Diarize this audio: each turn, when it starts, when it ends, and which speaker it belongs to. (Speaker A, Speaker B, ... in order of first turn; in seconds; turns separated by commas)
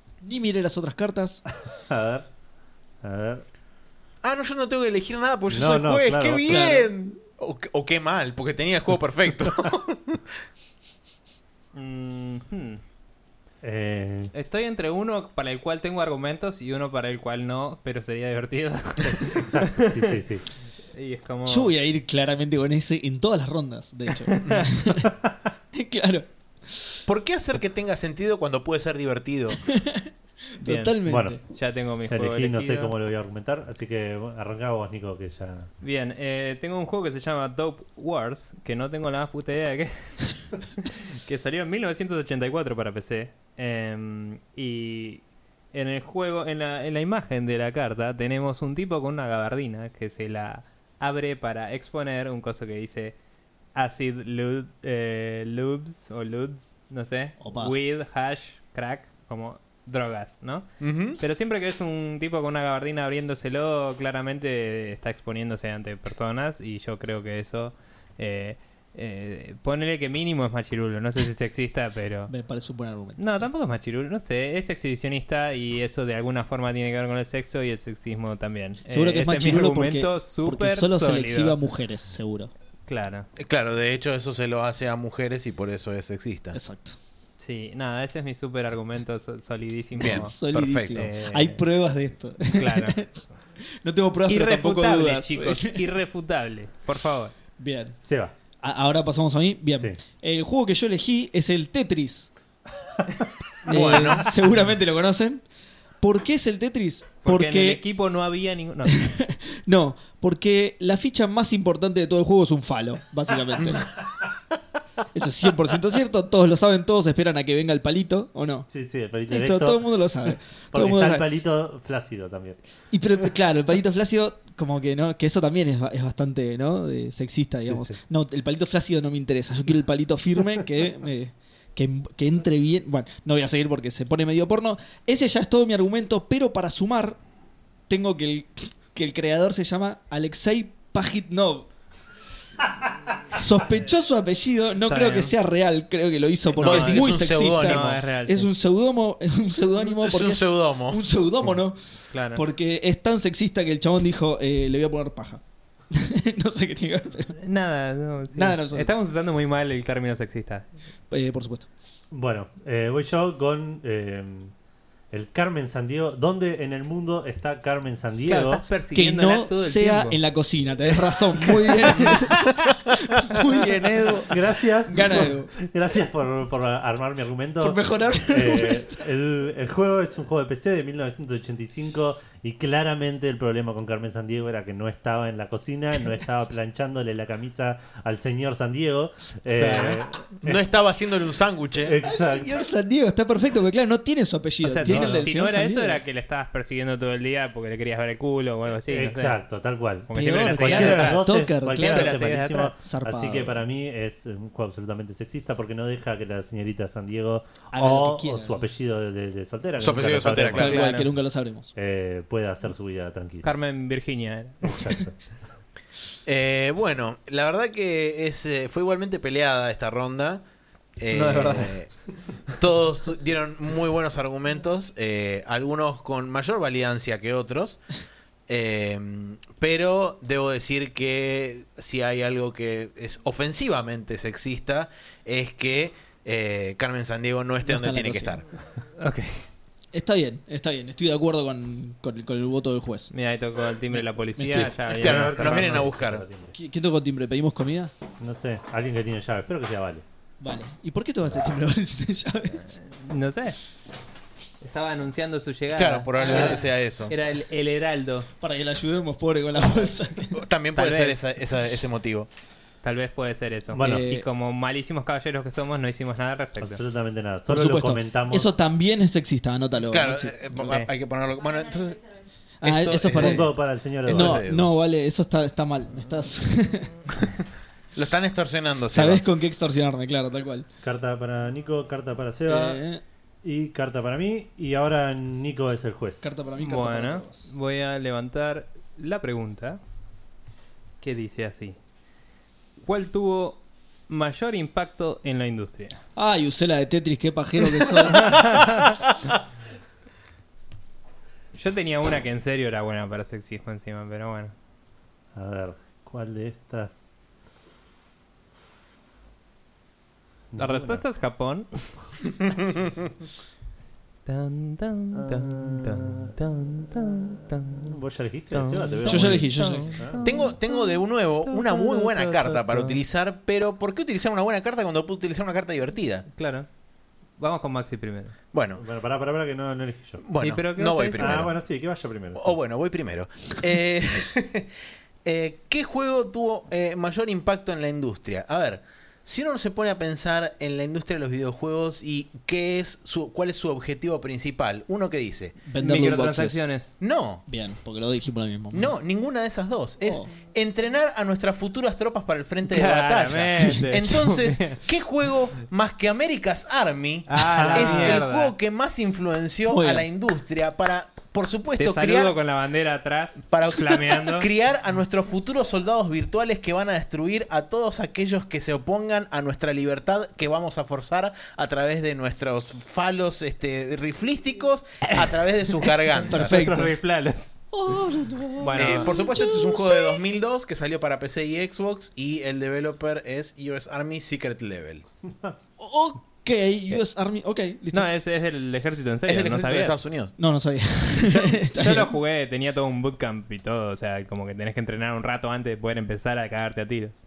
Speaker A: 0.2-1.4, Speaker B: 1.7-2.3, Speaker B: 3.0-3.4, Speaker C: 4.2-10.2, Speaker B: 5.5-6.7, Speaker A: 6.5-6.9, Speaker D: 11.8-12.8, Speaker B: 13.6-14.3, Speaker D: 14.3-20.2, Speaker B: 19.0-20.4, Speaker D: 20.9-21.7, Speaker A: 21.5-25.1, Speaker D: 24.2-24.6, Speaker B: 25.0-25.3, Speaker A: 25.7-27.0, Speaker C: 27.1-29.6, Speaker A: 29.6-31.4, Speaker D: 30.6-32.9, Speaker B: 31.1-31.4, Speaker B: 32.0-35.7, Speaker D: 35.8-53.2, Speaker D: 53.8-72.3, Speaker A: 57.4-57.7, Speaker C: 60.8-61.2, Speaker A: 72.3-73.2, Speaker D: 73.2-81.6, Speaker A: 78.9-82.5, Speaker D: 82.9-83.3, Speaker C: 83.4-86.6, Speaker A: 86.5-87.0, Speaker D: 87.4-90.4, Speaker C: 90.0-91.1, Speaker A: 90.0-93.1, Speaker D: 90.9-91.6, Speaker D: 92.5-93.1, Speaker A: 93.8-95.8, Speaker D: 94.3-97.3, Speaker A: 97.6-98.0, Speaker B: 98.0-98.3, Speaker A: 98.6-102.3, Speaker C: 103.6-104.4, Speaker A: 103.7-105.4, Speaker A: 106.0-107.8, Speaker D: 107.2-109.1, Speaker A: 108.9-113.9, Speaker A: 115.1-118.7, Speaker B: 118.7-119.9, Speaker A: 119.3-121.2, Speaker B: 120.7-122.6, Speaker A: 122.9-137.2, Speaker B: 127.6-128.0, Speaker A: 137.9-141.7, Speaker A: 143.3-151.8, Speaker D: 144.9-145.3, Speaker C: 146.6-148.0, Speaker D: 146.6-148.5, Speaker C: 149.8-151.0, Speaker D: 152.1-152.4, Speaker A: 152.3-157.4, Speaker D: 157.4-160.7, Speaker A: 158.3-158.9, Speaker A: 161.1-161.7, Speaker B: 162.1-164.5, Speaker B: 165.1-168.7, Speaker D: 168.3-170.2, Speaker A: 168.9-175.5, Speaker D: 171.6-172.8, Speaker B: 174.3-190.6, Speaker A: 177.6-178.9, Speaker D: 189.6-190.0, Speaker C: 190.4-192.0, Speaker B: 191.8-192.6, Speaker A: 192.0-196.0, Speaker D: 194.6-199.4, Speaker B: 194.8-195.3, Speaker B: 198.9-210.8, Speaker D: 200.1-202.8, Speaker A: 200.1-202.1, Speaker A: 202.8-203.6, Speaker A: 207.7-208.6, Speaker C: 209.8-210.8, Speaker D: 210.4-211.1, Speaker A: 210.5-211.7, Speaker B: 211.8-213.5, Speaker D: 213.4-214.9, Speaker B: 214.6-215.2, Speaker C: 216.2-220.4, Speaker C: 221.0-221.9, Speaker D: 221.1-221.8, Speaker C: 222.5-227.8, Speaker C: 228.5-238.4, Speaker A: 237.6-238.4, Speaker D: 239.0-239.4, Speaker A: 239.9-243.1, Speaker D: 243.1-245.9, Speaker A: 243.9-244.7, Speaker C: 244.5-246.2, Speaker B: 244.9-246.5, Speaker A: 246.5-247.9, Speaker B: 248.2-250.0, Speaker A: 250.4-252.7, Speaker D: 252.7-253.6, Speaker D: 254.6-258.3, Speaker C: 255.7-257.1, Speaker A: 256.1-256.6, Speaker A: 258.4-260.4, Speaker C: 260.3-262.3, Speaker D: 260.7-261.2, Speaker D: 262.8-266.8, Speaker B: 263.7-264.1, Speaker A: 263.8-264.2, Speaker B: 266.6-268.5, Speaker A: 267.5-270.6, Speaker C: 269.9-272.1, Speaker D: 270.6-270.9, Speaker A: 272.6-273.5, Speaker C: 272.6-273.5, Speaker B: 273.1-274.4, Speaker C: 274.1-274.7, Speaker A: 274.1-277.0, Speaker C: 277.9-279.2, Speaker A: 278.9-280.7, Speaker B: 280.8-282.8, Speaker A: 282.5-283.0, Speaker B: 283.4-286.3, Speaker A: 286.2-287.4, Speaker D: 286.6-289.8, Speaker D: 291.0-291.8, Speaker D: 292.8-296.0, Speaker A: 296.2-298.5, Speaker D: 298.1-299.0, Speaker D: 301.6-304.5, Speaker B: 305.4-307.0, Speaker B: 310.5-311.0, Speaker D: 310.6-312.1, Speaker D: 314.3-318.0, Speaker B: 315.1-316.3, Speaker B: 317.8-320.2, Speaker D: 318.5-323.0, Speaker A: 319.1-319.9, Speaker C: 320.2-326.3, Speaker D: 326.4-326.7, Speaker D: 327.4-328.4, Speaker C: 328.5-328.8, Speaker B: 328.8-330.2, Speaker C: 330.2-331.5, Speaker D: 330.4-331.4, Speaker B: 331.2-332.6, Speaker C: 332.4-334.7, Speaker C: 335.2-345.6, Speaker A: 345.6-346.6, Speaker D: 345.8-346.9, Speaker C: 347.0-347.4, Speaker A: 347.5-348.9, Speaker C: 348.7-362.3, Speaker A: 350.0-350.3, Speaker D: 352.6-354.8, Speaker A: 353.5-353.9, Speaker D: 357.3-358.5, Speaker B: 357.6-358.2, Speaker A: 359.7-360.1, Speaker D: 361.8-364.5, Speaker C: 363.5-376.7, Speaker D: 375.1-378.0, Speaker A: 376.3-376.9, Speaker A: 377.7-380.2, Speaker D: 378.6-379.3, Speaker C: 378.8-385.1, Speaker A: 385.8-388.1, Speaker D: 387.9-390.0, Speaker C: 389.3-390.3, Speaker A: 390.4-392.1, Speaker D: 391.8-397.1